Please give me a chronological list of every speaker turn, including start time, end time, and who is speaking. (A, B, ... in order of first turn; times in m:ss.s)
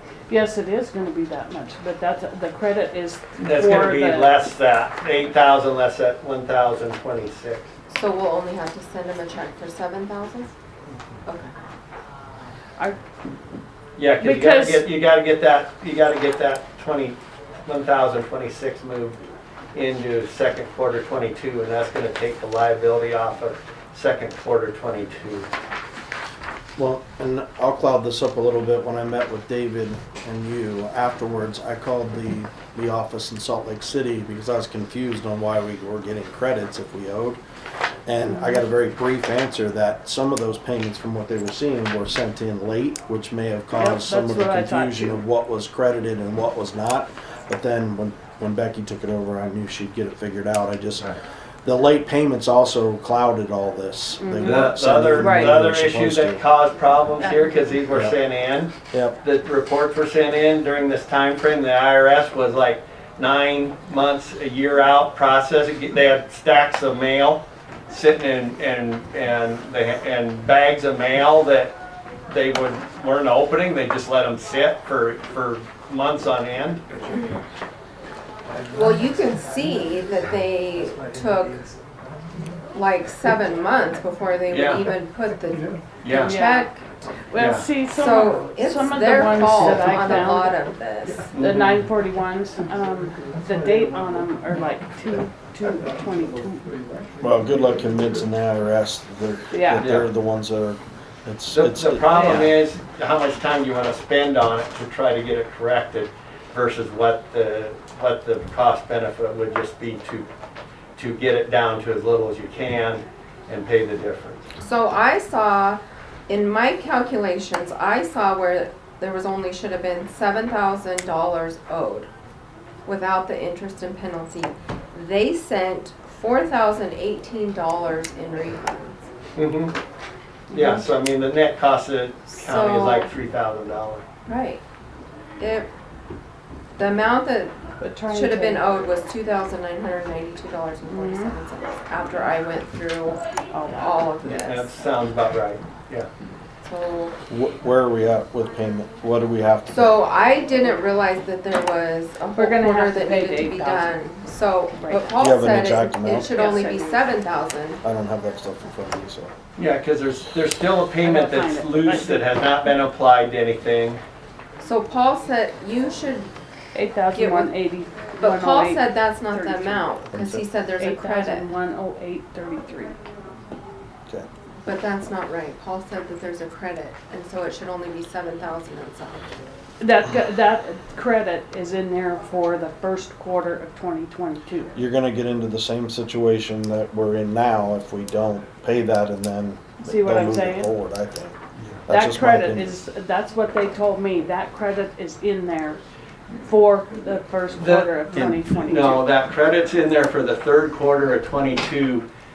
0:00.3-0:04.3 A
0:03.4-0:07.7 B
0:07.9-0:10.5 C
0:11.2-0:11.5 C
0:14.0-0:19.2 B
0:14.2-0:14.8 A
0:19.7-0:25.5 B
0:26.8-0:37.4 D
0:38.0-0:56.4 D
0:38.2-0:38.6 A
0:43.7-0:45.2 A
0:54.2-0:55.6 A
0:54.4-0:58.7 B
0:57.2-0:57.7 A
0:58.9-0:59.2 D
0:59.2-1:11.7 B
1:12.3-1:16.8 B
1:18.7-1:21.6 C
1:22.7-1:26.9 C
1:24.5-1:24.9 B
1:26.0-1:26.4 B
1:26.2-1:26.7 A
1:27.3-1:30.5 A
1:27.4-1:27.6 B
1:27.9-1:31.3 C
1:31.3-1:31.8 B
1:31.3-1:36.7 A
1:37.2-1:42.4 D
1:39.5-1:39.9 A
1:39.8-1:40.1 B
1:41.5-1:50.3 B
1:42.2-1:42.5 A
1:51.0-1:54.4 B
1:54.6-2:02.1 C
2:02.8-2:09.1 C
2:09.4-2:09.7 B
2:10.5-2:10.9 A
2:10.5-2:14.0 B
2:12.3-2:13.1 C
2:14.2-2:14.6 C
2:15.4-2:15.7 C
2:16.8-2:17.6 C
2:17.8-2:18.6 A
2:18.1-2:24.8 C
2:20.9-2:21.4 A
2:23.5-2:24.0 A
2:24.2-2:26.1 B
2:26.6-2:27.2 C
2:27.3-2:30.0 D
2:29.7-2:37.8 C
2:32.3-2:33.9 A
2:34.7-2:37.0 A
2:35.2-2:36.3 D
2:37.8-2:39.3 D
2:39.6-2:44.0 B
2:41.0-2:42.3 A
2:44.6-2:46.3 C
2:46.7-2:49.9 A
2:47.1-2:47.5 C
2:48.2-2:51.5 C
2:50.1-2:50.4 D
2:50.8-2:53.0 A
2:54.6-2:59.3 C
2:59.8-3:04.7 A
3:04.7-3:12.8 D
3:09.8-3:10.7 A
3:11.9-3:15.8 A
3:16.4-3:19.0 A
3:17.6-3:22.0 B